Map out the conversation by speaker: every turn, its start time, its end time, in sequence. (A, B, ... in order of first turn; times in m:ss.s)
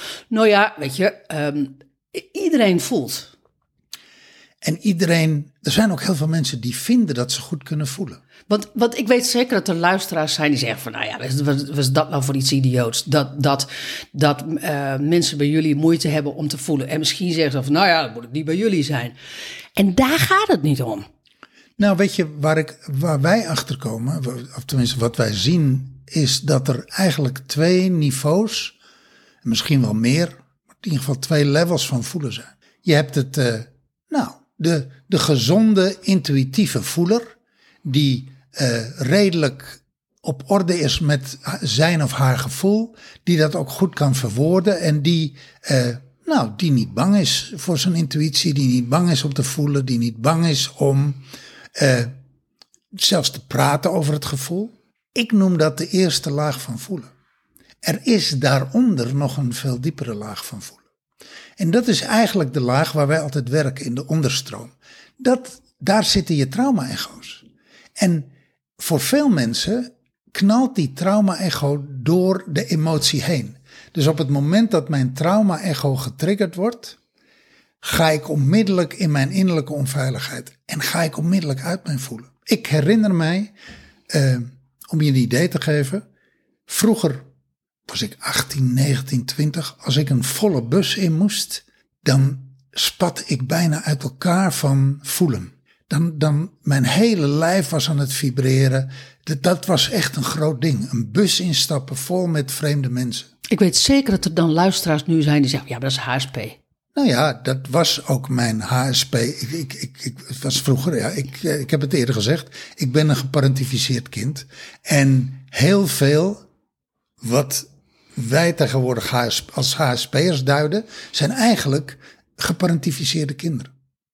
0:00.3-0:03.3 A
0:04.6-0:08.2 B
0:08.5-0:19.1 A
0:19.8-0:21.0 A
0:21.8-0:28.8 B
0:29.4-0:37.3 B
0:37.8-0:51.2 B
0:51.8-0:52.1 B
0:52.9-0:57.1 B
0:57.8-1:00.8 B
1:01.6-1:07.4 B
1:08.0-1:17.0 B
1:17.8-1:23.5 B
1:24.1-1:26.0 B
1:26.7-1:27.2 B
1:27.9-1:43.3 B
1:43.5-1:46.6 A
1:47.0-1:56.4 B
1:57.2-2:03.7 B